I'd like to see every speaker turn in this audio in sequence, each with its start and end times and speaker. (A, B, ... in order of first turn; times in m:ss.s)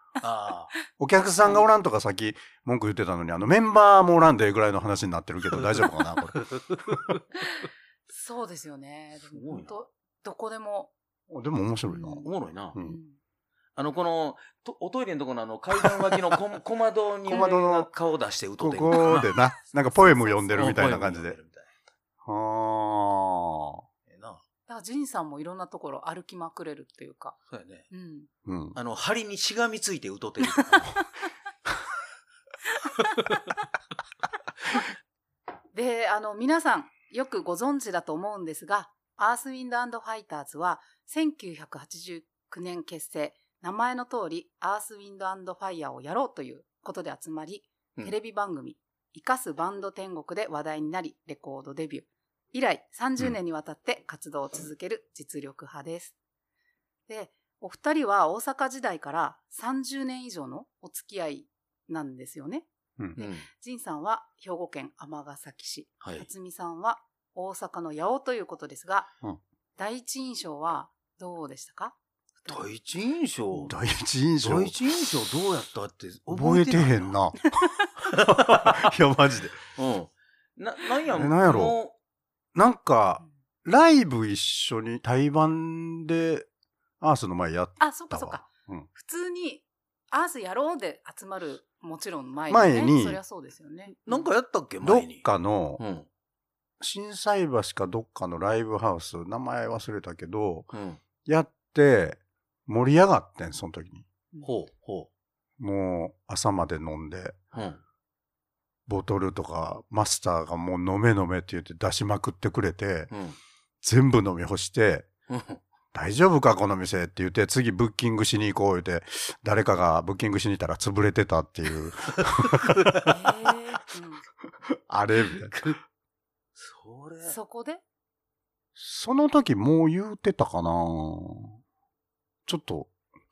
0:00.2-0:00.7 A
0:01.0-0:06.4 B
0:06.3-0:07.2 A
0:07.5-0:10.9 C
0:09.3-0:09.7 A
0:11.3-0:13.0 B
0:11.9-0:12.3 C
0:12.2-0:12.8 A
0:12.8-0:13.2 C
0:13.8-0:19.3 A
0:17.3-0:17.9 B
0:18.6-0:21.4 B
0:19.6-0:20.8 C
0:20.6-0:21.7 A
0:22.2-0:23.8 B
0:24.1-0:24.4 A
0:24.7-0:27.4 C
0:27.5-0:27.9 A
0:27.9-0:28.3 C
0:28.4-0:28.8 B
0:28.8-0:31.0 A
0:35.7-0:56.2 C
0:57.1-1:02.6 C
1:03.2-1:09.1 C
1:03.2-1:03.4 A
1:06.0-1:06.3 A
1:09.8-1:12.6 C
1:12.5-1:13.7 A
1:13.7-1:14.8 B
1:14.4-1:17.1 A
1:16.3-1:19.6 B
1:18.2-1:18.8 A
1:19.8-1:21.9 A
1:21.1-1:21.8 B
1:22.5-1:26.5 B
1:27.0-1:28.9 B
1:27.8-1:34.3 C
1:32.5-1:33.2 B
1:34.0-1:35.3 A
1:34.8-1:35.8 B
1:35.8-1:36.1 A
1:36.8-1:40.7 B
1:40.7-1:41.0 A
1:41.2-1:44.0 B
1:44.4-1:45.1 A
1:45.6-1:47.4 B
1:47.5-1:47.8 A
1:48.9-1:53.1 B
1:53.1-1:53.4 A
1:53.8-1:55.1 B
1:55.3-1:55.6 A
1:55.9-2:03.1 B
2:02.5-2:03.1 A
2:03.1-2:04.2 C
2:04.7-2:05.7 B
2:05.5-2:05.8 A
2:06.6-2:07.4 A
2:07.2-2:07.8 C
2:08.8-2:11.6 B
2:12.4-2:12.9 B